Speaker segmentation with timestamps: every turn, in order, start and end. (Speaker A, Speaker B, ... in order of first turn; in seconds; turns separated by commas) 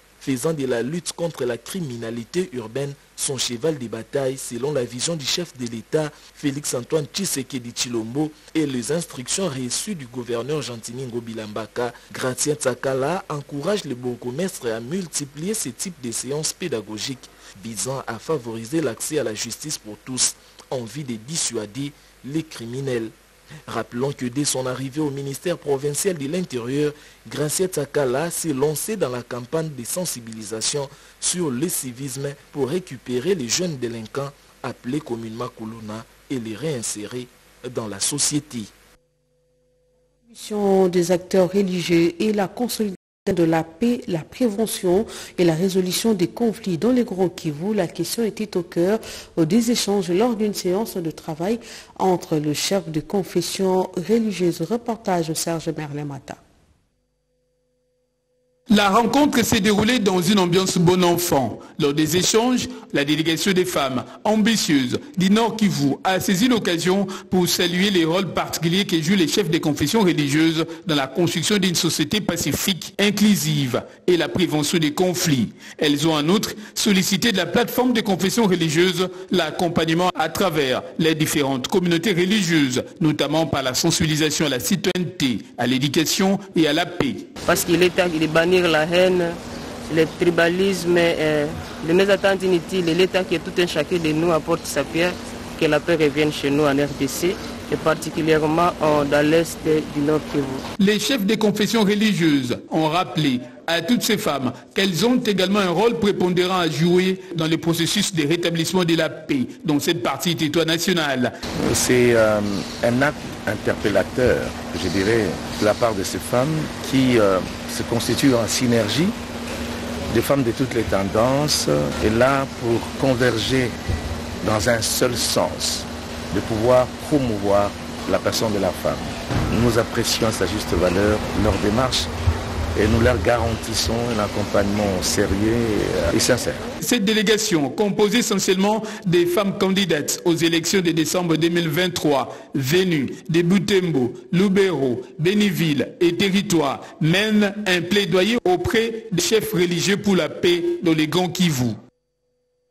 Speaker A: 0.2-23.1, Speaker A: 23.7-38.7, Speaker B: 40.2-56.4, Speaker C: 58.7-87.3, Speaker D: 87.5-100.7, Speaker C: 100.8-111.3, Speaker E: 111.5-119.2, Speaker E: 120.1-123.8, Speaker E: 124.4-132.1, Speaker E: 132.8-136.7, Speaker C: 136.8-151.8